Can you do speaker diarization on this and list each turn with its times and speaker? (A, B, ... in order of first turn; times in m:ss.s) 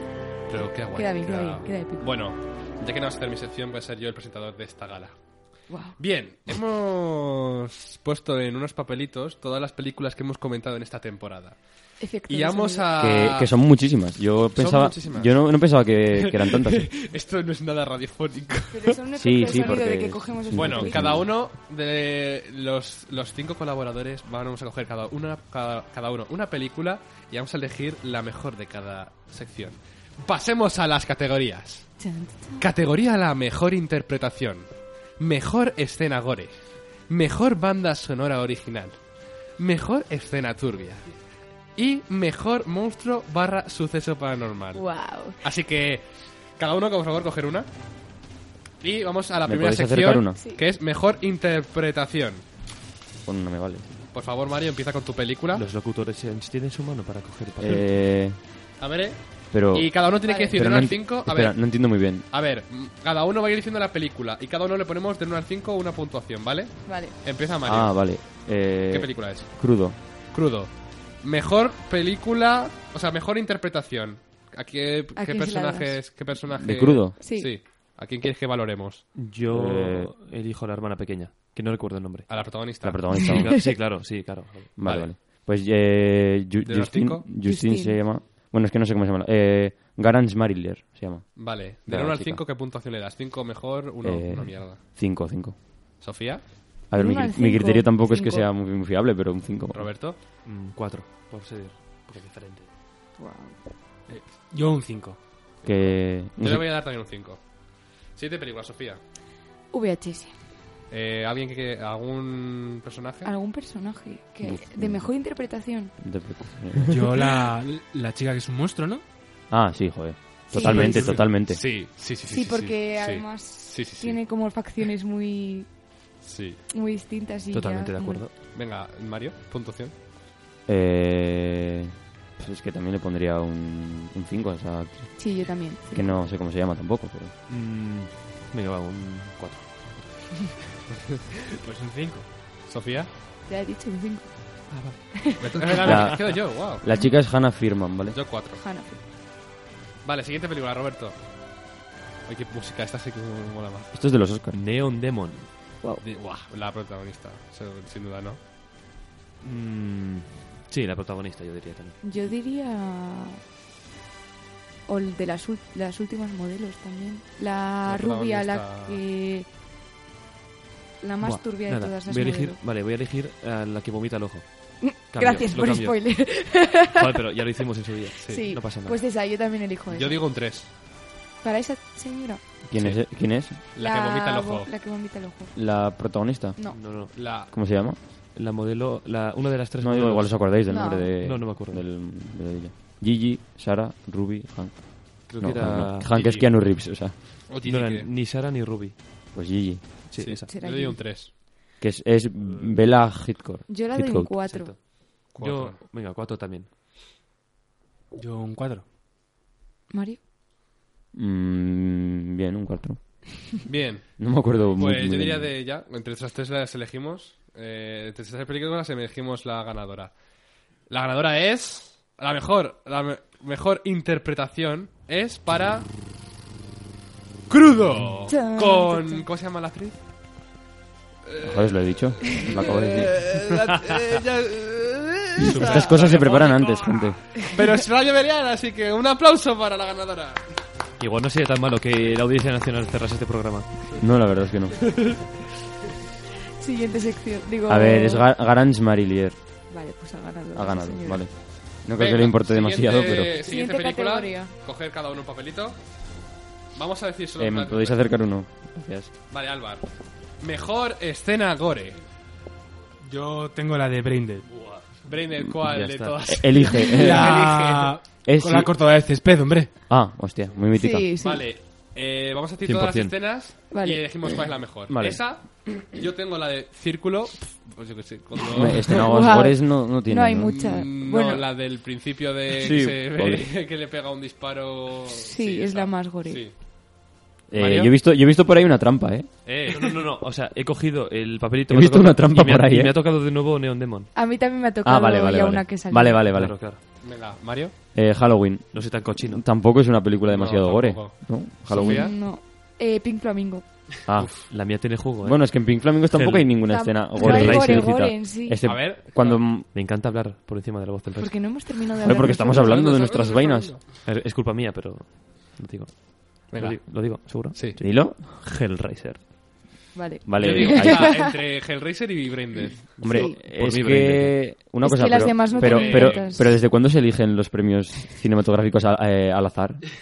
0:00.5-0:13.5 A
0:00.9-0:02.1 B
0:05.7-0:06.0 B
0:12.0-0:12.9 B
0:13.0-0:16.9 C
0:14.5-0:19.7 A
0:18.7-0:21.2 B
0:19.2-0:21.3 C
0:20.5-0:32.0 A
0:32.0-0:32.6 B
0:32.6-0:39.0 A
0:39.6-0:41.1 A
0:41.8-0:46.0 A
0:44.7-0:45.4 B
0:46.6-0:47.7 A
0:48.8-0:52.4 A
0:49.4-0:50.4 C
0:53.2-0:53.9 C
0:54.1-0:55.6 A
0:55.5-0:57.8 D
0:57.6-0:58.4 C
0:58.8-1:08.2 A
0:59.5-1:02.2 C
1:00.2-1:00.5 B
1:06.8-1:07.1 B
1:07.6-1:09.9 C
1:08.9-1:09.6 A
1:10.3-1:19.1 A
1:15.1-1:16.0 B
1:16.5-1:17.2 C
1:17.2-1:17.5 B
1:19.1-1:22.6 D
1:19.5-1:20.1 C
1:22.3-1:23.2 A
1:22.8-1:23.7 C
1:23.2-1:24.8 D
1:24.8-1:32.4 C
1:24.8-1:25.1 A
1:26.6-1:27.3 A
1:27.4-1:28.0 B
1:31.4-1:34.8 A
1:34.0-1:35.6 C
1:36.0-1:36.5 A
1:36.9-1:39.9 C
1:36.9-1:38.5 B
1:39.7-1:40.2 A
1:40.4-1:42.7 D
1:43.2-1:43.6 B
1:44.1-1:45.2 E
1:45.6-1:46.7 C
1:46.4-1:47.5 A
1:48.1-1:49.0 A
1:49.7-1:50.3 B
1:50.9-1:53.3 A
1:53.2-1:55.9 B
1:54.4-1:55.1 C
1:56.0-1:57.3 C
1:56.9-1:59.0 E
1:59.5-2:01.6 C
2:00.5-2:01.2 B
2:00.6-2:01.3 E
2:01.4-2:04.2 A
2:02.2-2:05.7 B
2:06.2-2:06.6 A
2:06.7-2:08.2 B
2:07.5-2:08.3 D
2:08.5-2:09.9 A
2:10.6-2:17.3 C
2:15.2-2:16.1 B
2:17.5-2:20.6 D
2:21.6-2:22.3 E
2:22.6-2:23.1 A
2:23.5-2:26.2 B
2:25.4-2:26.8 A
2:25.8-2:28.2 C
2:28.1-2:28.6 A
2:28.5-2:29.0 B
2:30.0-2:31.2 A
2:32.2-2:33.9 A
2:33.9-2:34.6 C
2:34.5-2:35.5 D
2:36.0-2:38.4 A
2:39.4-2:42.0 D
2:42.0-2:43.4 B
2:44.9-2:49.5 B
2:47.8-2:49.0 A
2:51.0-2:52.6 B
2:51.2-2:59.0 D
2:54.8-2:57.0 B
2:58.2-2:58.5 A
2:58.2-3:00.2 B
2:59.9-3:00.7 A
3:01.4-3:02.4 B
3:02.6-3:03.6 C
3:03.7-3:04.7 A
3:03.8-3:05.5 B
3:05.5-3:08.0 C
3:06.7-3:07.1 D
3:07.1-3:07.5 A
3:08.3-3:10.4 D
3:09.8-3:17.2 C
3:10.7-3:11.1 B
3:11.2-3:11.8 D
3:15.3-3:16.1 D
3:16.1-3:16.5 A
3:17.5-3:18.1 A
3:17.6-3:19.0 D
3:19.3-3:20.1 C
3:20.1-3:20.5 D
3:20.2-3:21.3 A
3:20.5-3:21.0 B
3:21.8-3:24.4 C
3:23.7-3:24.7 B
3:24.4-3:26.7 D
3:25.3-3:25.8 A
3:28.1-3:28.8 E
3:29.9-3:30.2 B
3:31.1-3:33.2 C
3:33.6-3:40.1 A
3:34.2-3:35.5 C
3:40.9-3:45.9 A
3:47.5-3:50.0 A
3:48.3-3:49.2 B
3:51.3-4:00.4 A
3:51.4-3:53.1 C
3:55.4-3:57.2 C
3:55.4-3:55.9 D
4:01.0-4:04.0 D
4:04.0-4:04.9 C
4:05.0-4:05.2 A
4:06.6-4:08.2 B
4:07.7-4:09.4 C
4:09.7-4:11.2 B
4:10.5-4:13.3 C
4:11.9-4:15.8 A
4:13.3-4:14.5 B
4:16.7-4:18.0 A
4:17.4-4:19.1 C
4:19.3-4:19.9 A
4:20.4-4:22.0 A
4:23.0-4:24.5 E
4:24.5-4:25.0 D
4:25.0-4:28.0 A
4:25.4-4:27.4 C
4:25.6-4:26.2 D
4:26.9-4:29.7 E
4:28.2-4:28.7 C
4:29.9-4:31.1 C
4:30.7-4:31.5 B
4:31.2-4:39.1 A
4:32.6-4:33.2 D
4:33.7-4:34.0 B
4:34.9-4:35.2 C
4:38.5-4:40.7 C
4:39.0-4:41.5 B
4:40.5-4:46.5 A
4:42.5-4:43.5 C
4:45.1-4:46.4 B
4:47.5-4:49.3 C
4:47.5-4:47.9 A
4:49.4-4:49.9 A
4:49.7-4:54.1 D
4:51.7-4:53.0 C
4:54.1-4:56.2 B
4:54.8-4:56.6 C
4:56.3-4:56.8 D
4:57.0-4:57.7 A
4:57.9-5:02.1 C
4:58.7-4:59.4 D
5:00.3-5:02.1 A
5:01.7-5:03.6 B
5:04.1-5:09.7 C
5:04.3-5:07.9 D
5:06.7-5:08.6 B
5:08.6-5:09.4 A
5:09.7-5:11.5 D
5:11.2-5:13.0 B
5:12.0-5:13.8 C
5:12.5-5:13.8 A
5:14.0-5:19.3 D
5:16.5-5:17.8 A
5:17.8-5:18.2 C
5:19.9-5:21.3 B
5:20.2-5:21.2 C
5:20.4-5:23.0 A
5:23.0-5:24.4 D
5:23.0-5:29.9 C
5:23.1-5:23.4 B
5:24.8-5:26.5 B
5:25.5-5:26.3 A